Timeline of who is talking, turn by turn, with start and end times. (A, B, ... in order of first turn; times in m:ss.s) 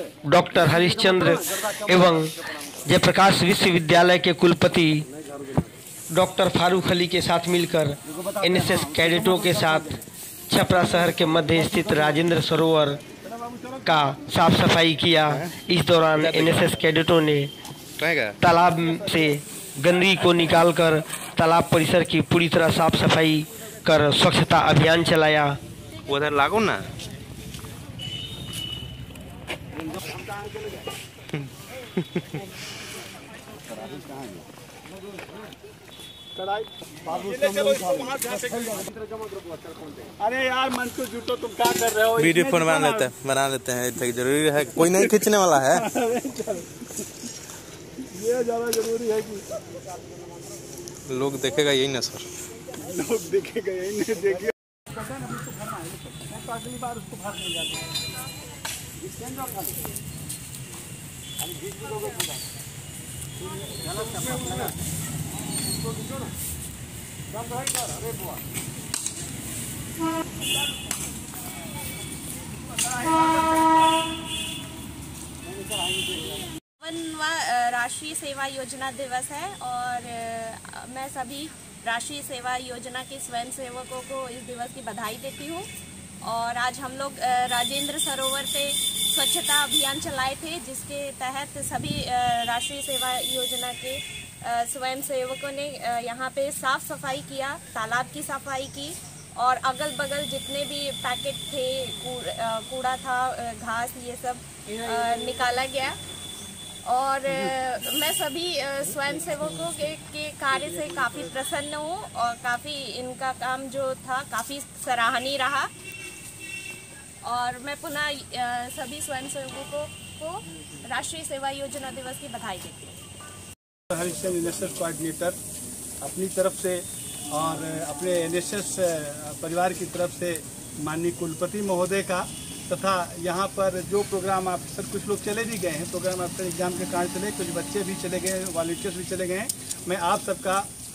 0:00.3-0:02.3 A
0:02.8-0:05.0 A
0:06.1-0:13.0 A
0:13.8-0:17.5 A
0:15.3-0:15.6 B
0:16.1-0:16.7 B
0:18.0-0:18.4 B
0:18.4-0:25.5 A
0:26.1-0:26.9 B
0:31.3-0:32.4 B
0:36.4-0:38.9 C
0:40.2-0:43.1 C
0:42.2-0:45.8 B
0:44.8-0:47.3 C
0:48.1-0:49.4 C
0:51.1-0:52.3 B
0:52.7-0:58.0 C
1:16.8-1:25.7 D
1:26.2-1:46.0 D
1:46.8-1:55.7 D
1:57.2-2:03.0 D
2:03.9-2:05.4 C
2:06.0-2:20.7 C